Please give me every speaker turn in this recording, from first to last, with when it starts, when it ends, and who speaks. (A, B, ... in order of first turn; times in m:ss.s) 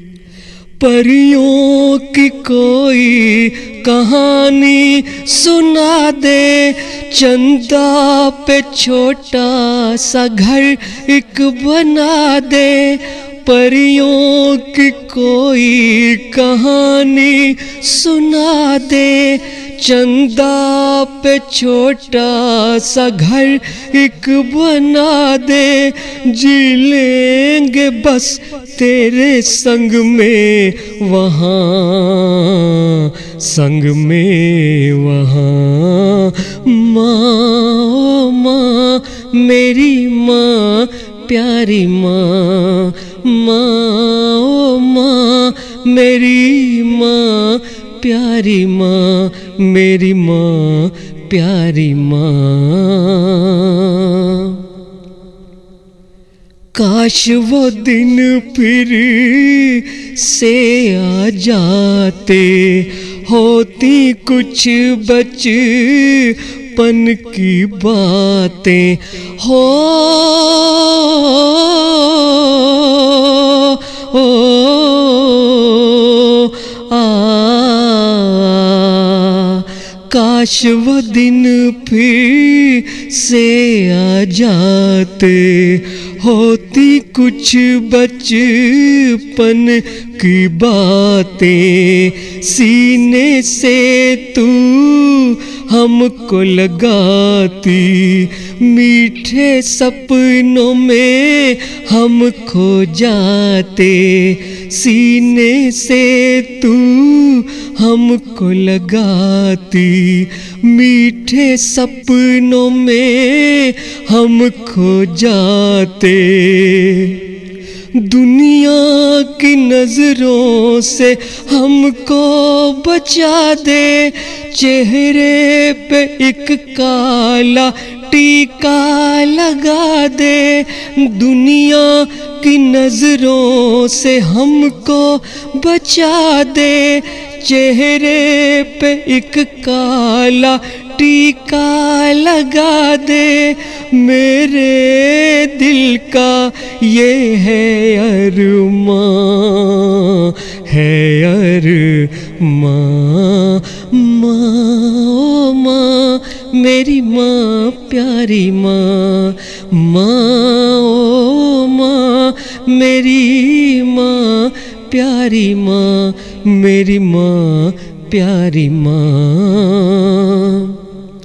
0:00.8-0:54.6 A
0:56.7-1:57.3 A
1:57.9-2:50.8 A